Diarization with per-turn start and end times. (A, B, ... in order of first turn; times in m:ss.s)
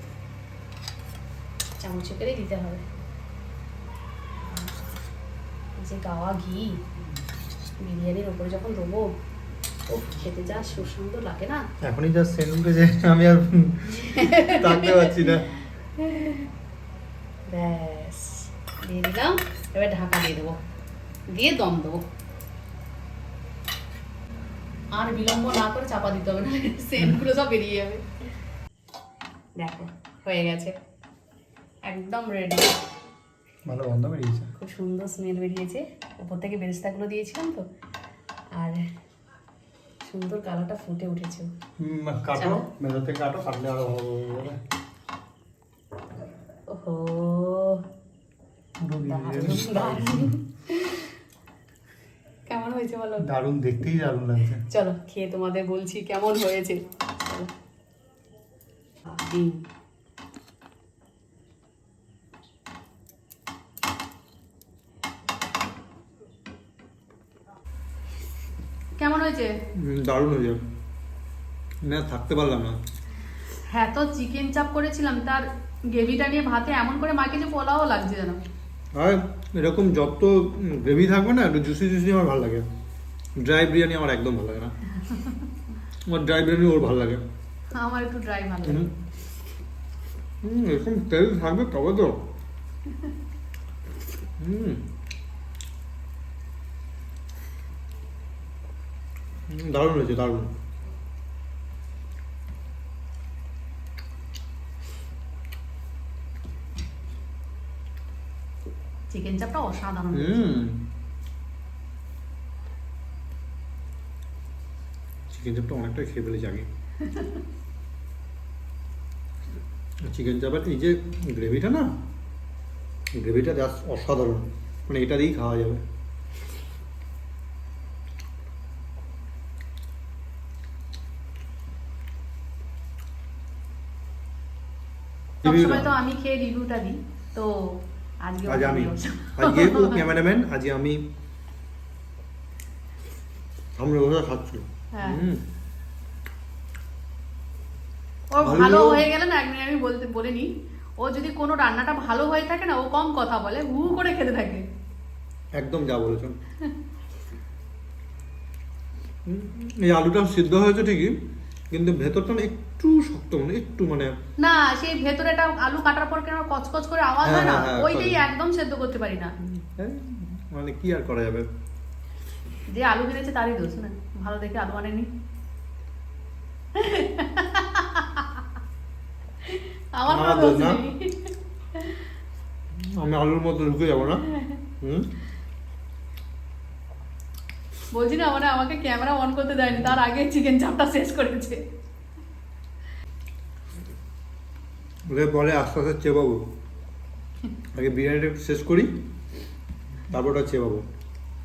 0:01.8-0:02.8 A
0:05.8-0:06.8 A
0:07.8-0:09.1 A
0:09.9-0:11.6 A
0:11.8-0:15.5 B
0:14.0-0:16.5 A
0:17.5-0:20.6 A
0:21.3-0:22.0 A
0:24.9-0:28.0 A
0:29.6-0:30.7 A
0:31.9-0:32.7 A
0:33.7-0:34.5 B
0:34.6-0:37.6 A
0:40.0-0:41.5 A
0:41.8-0:44.6 B
0:42.4-0:42.7 A
0:46.7-0:47.8 A
0:48.8-0:50.4 B
0:49.0-0:51.1 A
0:52.5-0:53.3 A
0:53.2-0:54.6 B
0:54.7-0:57.5 A
0:59.1-0:59.6 A
1:09.0-1:09.5 A
1:09.8-1:10.6 B
1:11.9-1:12.8 B
1:13.7-1:18.4 A
1:19.0-1:22.7 B
1:23.4-1:24.7 B
1:24.9-1:25.5 A
1:26.1-1:27.2 B
1:27.8-1:28.9 A
1:30.4-1:32.2 B
1:34.4-1:34.8 B
1:39.5-1:40.6 B
1:49.1-1:50.7 A
1:50.1-1:50.9 B
1:55.3-1:56.7 B
1:57.0-1:57.4 A
2:00.0-2:01.9 B
2:03.1-2:05.8 B
2:15.4-2:16.0 B
2:15.4-2:17.5 A
2:18.2-2:20.0 A
2:18.5-2:21.0 B
2:23.8-2:25.4 B
2:24.9-2:25.2 A
2:28.3-2:34.6 A
2:28.4-2:29.1 B
2:35.6-2:36.4 B
2:39.3-2:41.2 B
2:41.7-2:44.1 B
2:44.4-2:49.3 A
2:47.2-2:48.2 B
2:49.6-2:51.5 B
2:52.7-2:55.1 A
2:56.8-2:58.4 A
2:59.4-3:02.1 A
3:00.1-3:00.8 B
3:02.8-3:04.2 B
3:04.3-3:04.6 A
3:04.8-3:05.1 B
3:07.9-3:11.6 A
3:09.7-3:10.0 B
3:15.1-3:16.4 B
3:17.7-3:18.9 B
3:20.1-3:20.8 B